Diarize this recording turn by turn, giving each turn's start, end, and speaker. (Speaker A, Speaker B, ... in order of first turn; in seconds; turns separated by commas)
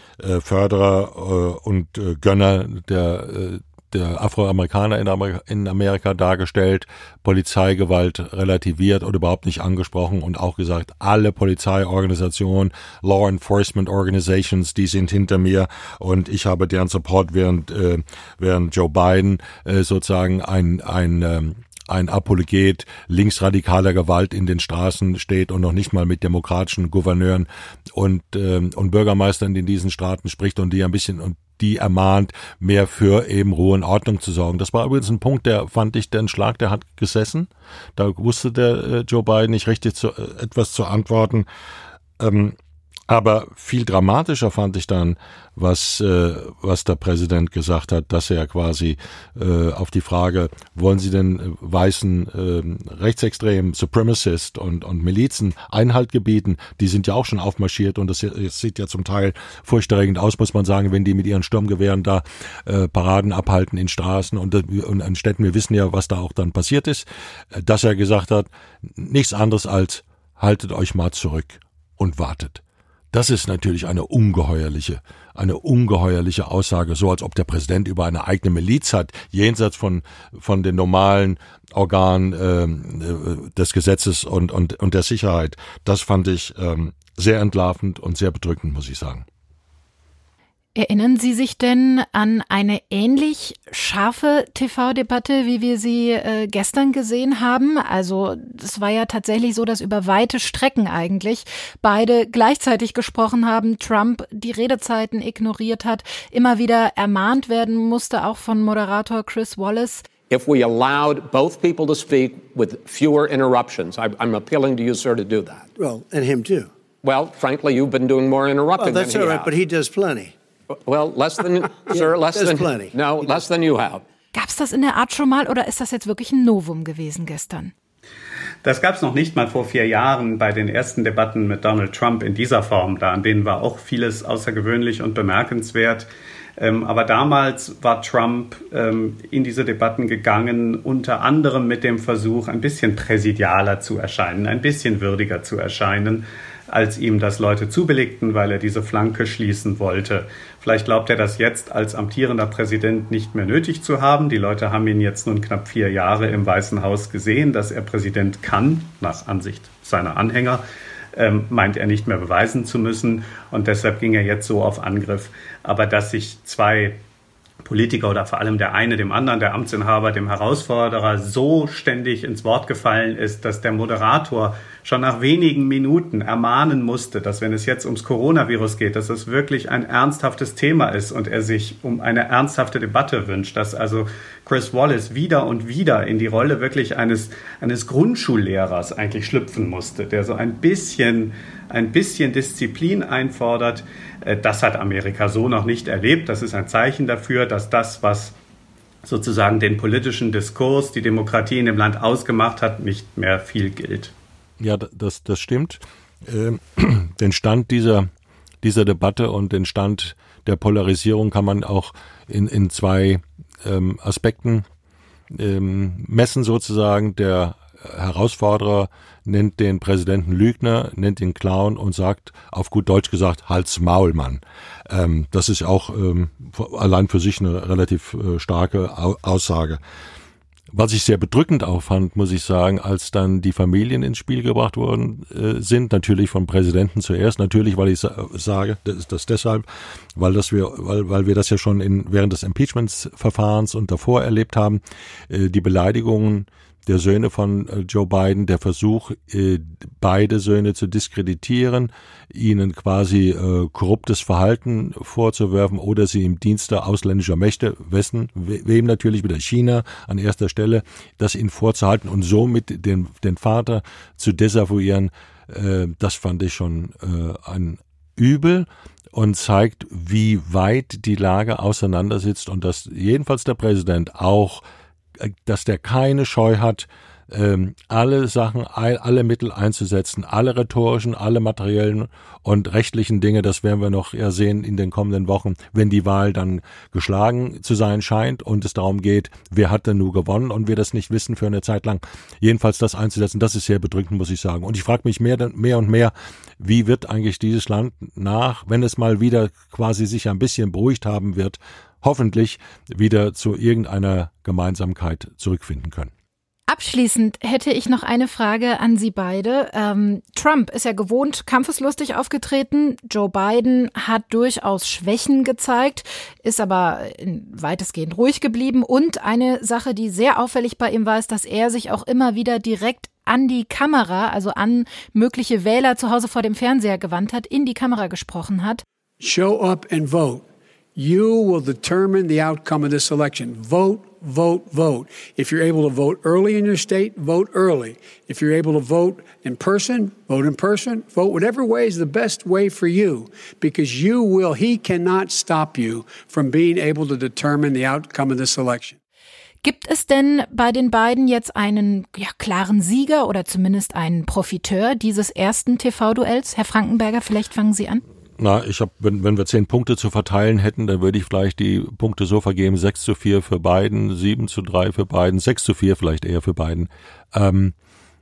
Speaker A: 0.2-41.5, Speaker A: 42.2-42.6, Speaker A: 43.1-72.6, Speaker A: 73.1-89.2, Speaker B: 90.8-110.1, Speaker C: 110.3-115.7, Speaker D: 115.8-116.7, Speaker C: 117.0-119.5, Speaker D: 118.8-120.3, Speaker C: 120.8-124.0, Speaker D: 121.9-123.4, Speaker B: 124.3-127.7, Speaker E: 128.6-160.6, Speaker E: 161.2-167.0, Speaker E: 167.6-198.3, Speaker E: 199.0-204.1, Speaker A: 204.6-208.1, Speaker A: 208.6-214.7, Speaker A: 215.3-229.8, Speaker A: 230.7-274.6, Speaker A: 275.2-306.1, Speaker B: 306.7-328.8, Speaker F: 329.2-349.0, Speaker B: 349.6-358.0, Speaker A: 358.4-367.8